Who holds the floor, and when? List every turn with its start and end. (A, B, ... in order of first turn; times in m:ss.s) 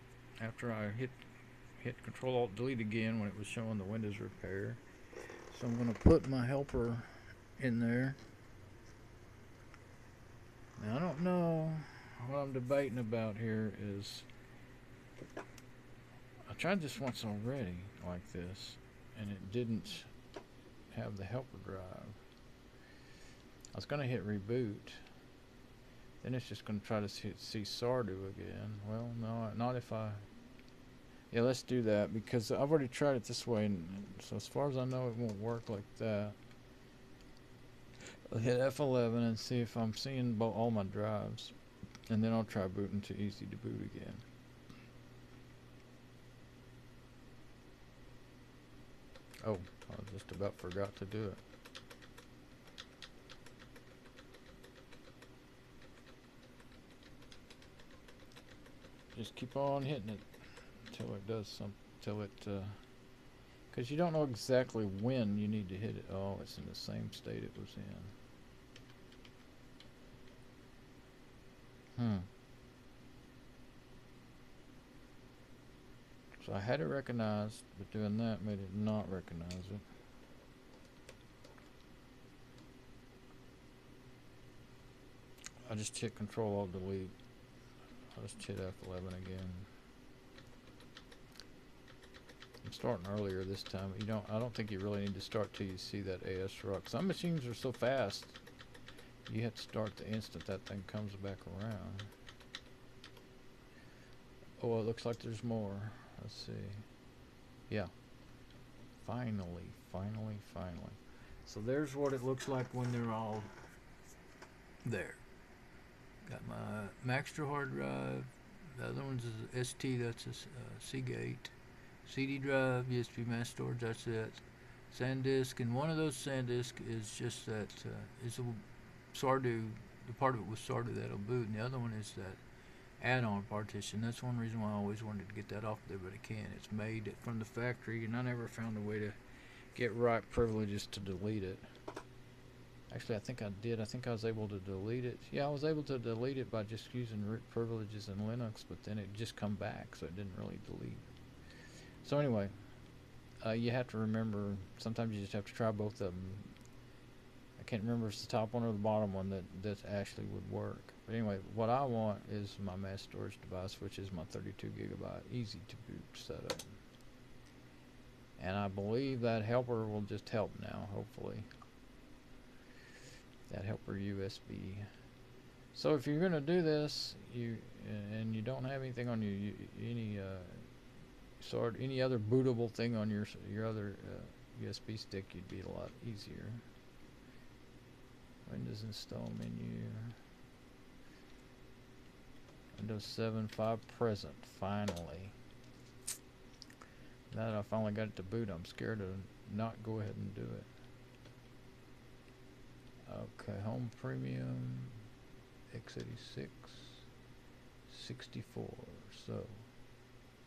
0:00.4-0:01.1 A
0:01.8-0:04.8 A
0:05.5-0:08.2 A
0:10.8-0:14.3 A
0:16.5-0:20.1 A
0:20.9-0:22.2 A
0:23.8-0:25.0 A
0:26.2-0:30.3 A
0:31.3-0:36.4 A
0:38.3-0:41.5 A
0:42.1-0:44.2 A
0:49.4-0:51.4 A
0:59.1-1:00.2 A
1:00.8-1:02.8 A
1:03.7-1:08.1 A
1:11.9-1:12.3 A
1:16.4-1:19.8 A
1:25.7-1:27.1 A
1:28.1-1:29.7 A
1:32.6-1:38.4 A
1:39.2-1:42.1 A
1:44.6-1:46.9 A
1:49.0-1:53.5 A
1:54.8-1:55.2 A
1:56.2-2:12.4 A
2:13.0-2:19.2 A
2:19.7-2:21.7 A
2:22.9-2:31.1 A
2:32.0-2:32.5 A
2:33.4-2:36.5 A
2:37.6-2:46.8 A
2:48.4-2:51.5 A
2:53.5-2:54.9 A
2:55.7-3:00.7 A
3:01.4-3:06.6 A
3:08.4-3:10.2 A
3:12.8-3:15.3 A
3:17.3-3:20.7 A
3:23.0-3:25.0 A
3:25.7-3:27.1 A
3:27.9-3:29.7 A